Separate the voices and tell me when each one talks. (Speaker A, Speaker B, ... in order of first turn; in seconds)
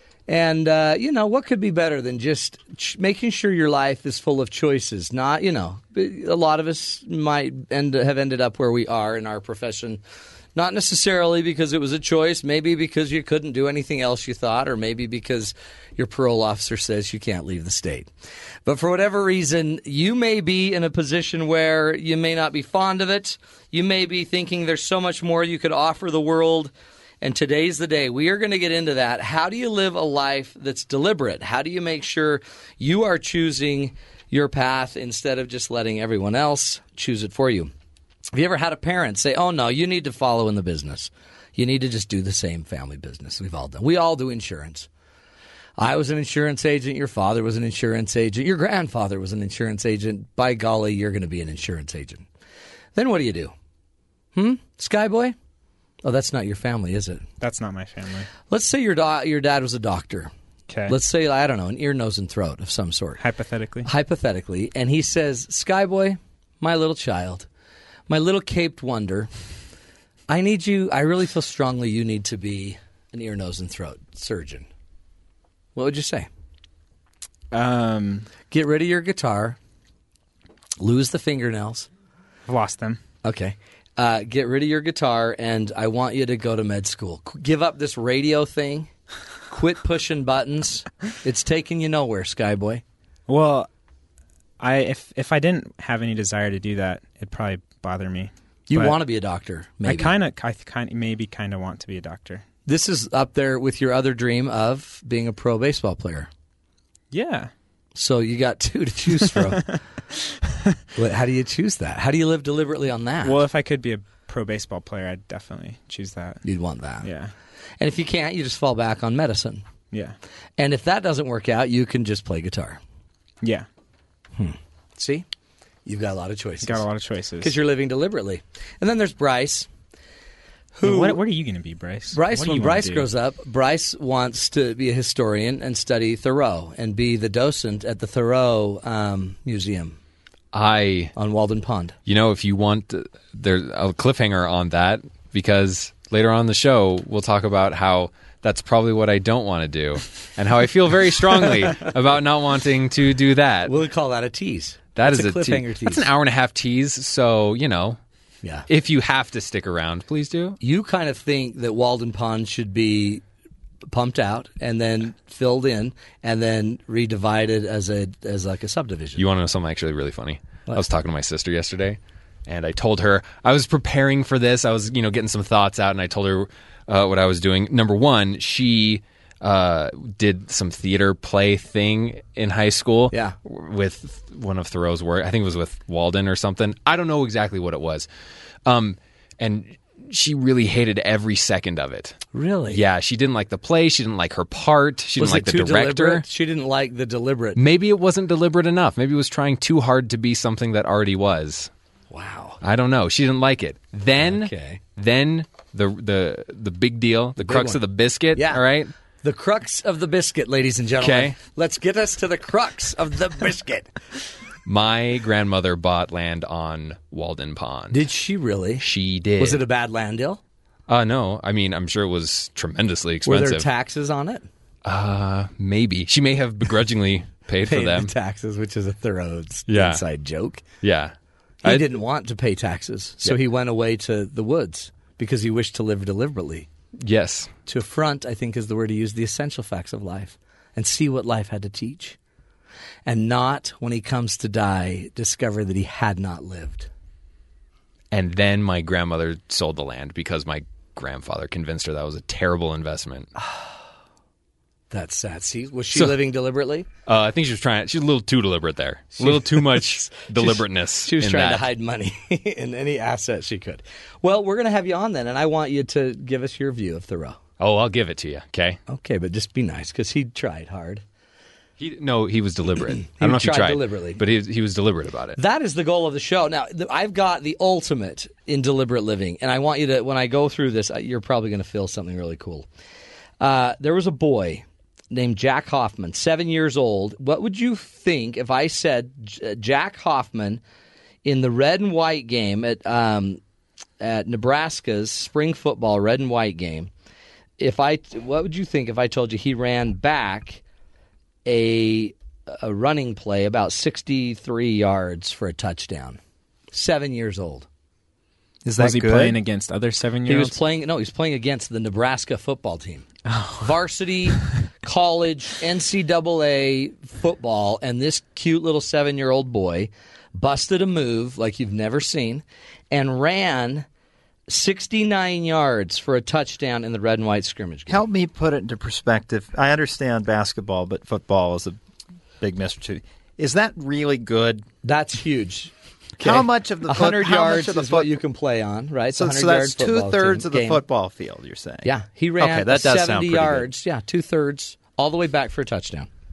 Speaker A: 0.3-10.0, 10.5-18.1, 18.6-37.7, 38.3-44.9, 45.8-52.2, 52.9-53.5, 54.3-55.4, 56.0-57.2, 58.5-60.3, 60.9-63.2, 63.8-67.5, 68.1-69.3, 70.3-74.7, 75.7-76.3, 78.5-79.6, 80.8-81.9, 83.2-88.9, 89.5-92.8, 98.7-100.1, 102.7-106.3, 107.9-109.6, 110.9-113.4, 116.4-117.1, 117.8-119.6, 120.6-122.8, 124.3-125.2, 125.8-126.8, 127.4-129.7, 130.8-131.2, 132.1-140.0, 141.2-141.9, 153.7-156.1, 160.6-163.2, 163.9-169.2, 183.1-183.3, 192.3-192.8, 195.2-197.6, 202.1-202.6, 204.2-204.8, 207.4-207.8, 208.3-208.6, 209.2-214.0, 217.9-218.8, 219.4-220.4, 223.2-224.5, 227.7-230.6, 231.6-236.7, 237.7-242.2, 243.1-246.9, 253.4-253.7, 254.9-256.9, 259.2-267.4, 268.9-271.0, 273.1-274.2, 275.4-282.7, 283.4-290.6, 291.2-293.4, 294.0-296.9, 297.6-300.6, 301.4-306.2, 306.7-307.7, 310.2-323.9, 324.5-328.0, 334.8-340.8, 341.8-346.1
Speaker B: 57.4-58.3, 60.7-61.0, 63.2-63.9, 77.5-78.3, 82.5-83.0, 93.3-93.7, 94.6-99.0, 99.8-102.4, 107.1-107.5, 113.2-116.4, 117.0-117.3, 123.4-123.7, 126.6-127.5, 130.8-133.1, 308.8-310.6, 313.3-313.7
Speaker C: 140.5-141.1, 142.1-153.7, 154.9-158.0, 158.7-160.6, 169.2-188.1, 188.6-196.2, 197.6-201.7, 202.6-208.9, 211.0-211.3, 214.6-218.0, 218.8-219.6, 220.9-223.7, 224.8-228.1, 229.7-230.0, 230.8-231.9, 237.0-237.5, 248.1-253.3, 255.9-256.2, 257.1-261.7, 267.6-268.8, 271.8-275.4
Speaker D: 308.6-309.4, 327.9-331.8, 332.4-334.6, 336.2-338.1, 339.1-343.7